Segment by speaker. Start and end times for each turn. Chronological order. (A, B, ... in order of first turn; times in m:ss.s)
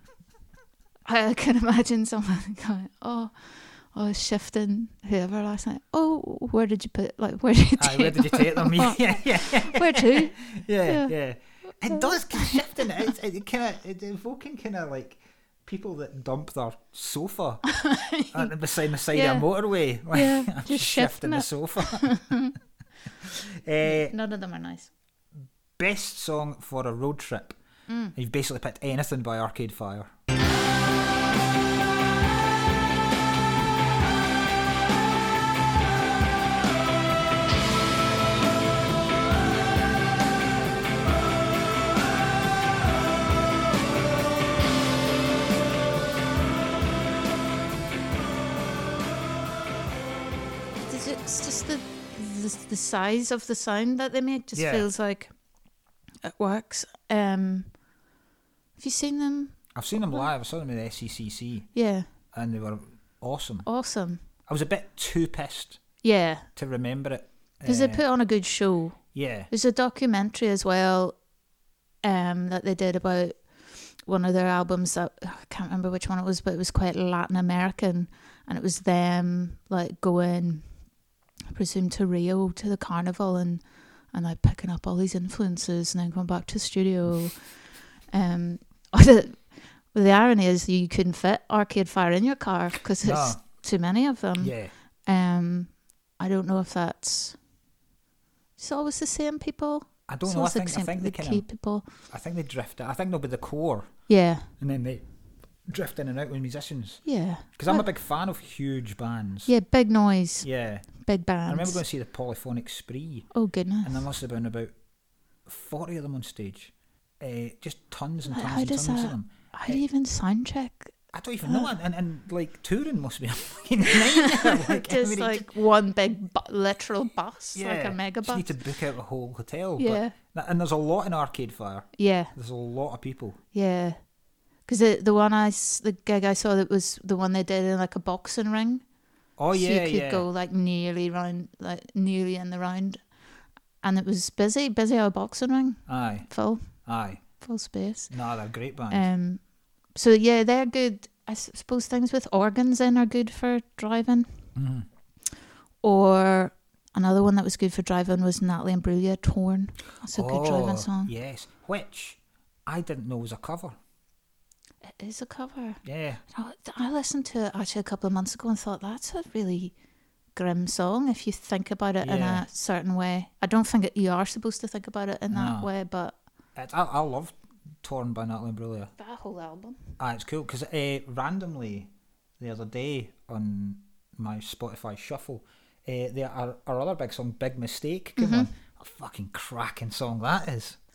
0:01.1-0:11.1 A
0:07.8-0:17.7 B
0:11.7-0:12.9 A
0:17.7-0:18.6 A
0:18.3-0:22.2 B
0:19.1-0:19.5 A
0:20.1-0:22.6 A
0:23.2-0:24.1 B
0:23.8-0:24.9 A
0:25.8-0:27.6 B
0:27.9-0:28.2 A
0:28.2-0:30.1 B
0:50.8-0:55.3 A
0:54.5-0:54.9 B
0:56.2-0:57.7 A
0:58.8-1:00.3 A
0:59.7-1:01.7 B
1:01.7-1:02.1 A
1:02.3-1:03.7 B
1:03.6-1:04.2 A
1:04.5-1:05.8 B
1:06.0-1:06.5 A
1:06.6-1:08.0 B
1:07.6-1:11.2 A
1:09.1-1:09.5 B
1:12.0-1:13.5 A
1:14.0-1:20.8 A
1:21.5-1:27.5 A
1:28.1-1:37.4 A
1:33.0-1:33.4 B
1:34.4-1:34.7 B
1:38.6-1:41.9 A
1:40.1-1:41.5 B
1:42.1-1:45.1 B
1:44.1-1:44.5 A
1:45.6-1:49.5 B
1:47.0-1:47.9 A
1:49.4-1:51.8 A
1:50.4-1:54.7 B
1:53.3-1:54.0 A
1:55.5-1:59.8 B
1:58.3-2:01.7 A
2:01.1-2:05.5 B
2:03.9-2:08.5 A
2:07.6-2:13.4 B
2:09.8-2:10.2 A
2:12.0-2:12.3 A
2:13.5-2:14.0 A
2:14.7-2:18.8 A
2:19.4-2:20.3 B
2:19.5-2:23.0 A
2:23.8-2:26.7 A
2:25.9-2:27.2 B
2:27.4-2:28.1 A
2:28.1-2:29.1 B
2:28.9-2:29.4 A
2:29.9-2:34.4 A
2:34.6-2:34.9 B
2:35.8-2:41.1 A
2:40.1-2:43.8 B
2:44.8-2:49.7 A
2:45.8-2:46.2 B
2:50.4-2:56.2 A
2:52.0-2:52.4 B
2:55.3-2:55.7 B
2:56.6-2:58.9 B
2:59.0-2:59.8 A
3:00.0-3:10.8 B
3:08.2-3:08.5 A